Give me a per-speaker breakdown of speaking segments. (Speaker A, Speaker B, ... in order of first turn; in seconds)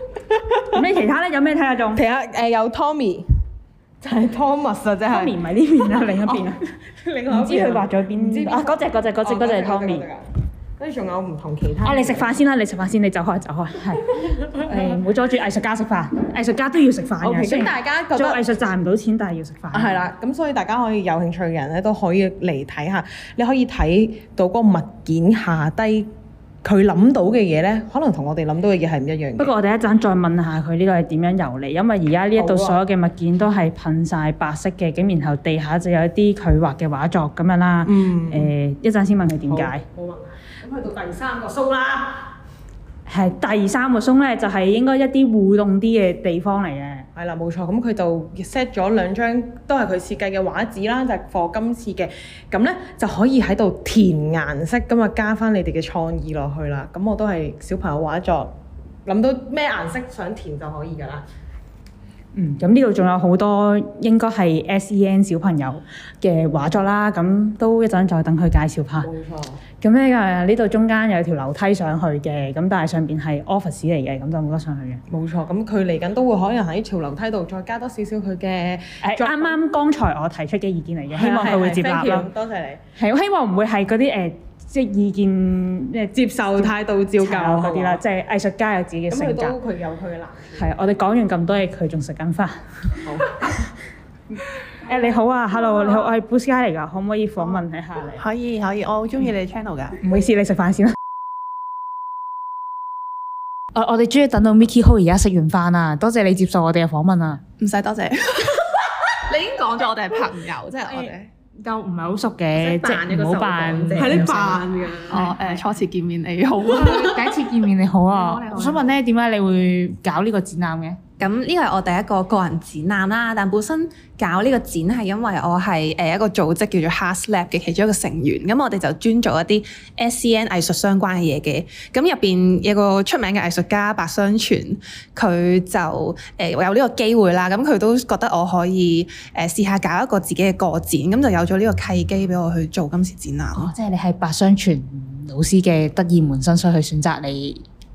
Speaker A: 0.3-0.6, 1.9-3.2, 4.0-5.4, 6.2-10.3, 10.8-12.4, 17.2-18.4, 19.7-26.1, 26.6-29.5, 32.4-32.8, 37.8-38.5, 39.5-42.3, 47.1-58.5, 59.0-61.2, 69.0-69.6, 75.1-79.8, 81.1-82.8, 86.1-88.0, 89.1-90.7, 93.0-93.3, 95.7-95.9, 113.9-115.3
Speaker B: 0.7-2.0, 5.1-6.6, 7.3-10.0, 11.8-20.0, 29.4-39.8, 43.1-47.0, 62.4-69.1, 69.8-75.0, 79.0-82.3, 83.0-89.6, 90.5-92.5, 94.8-98.2, 100.0-100.9, 103.7-107.4, 111.6-114.6, 116.7-121.0, 143.5-147.6
Speaker C: 98.2-100.0, 107.6-111.3, 112.5-117.4, 118.1-118.9, 121.2-143.7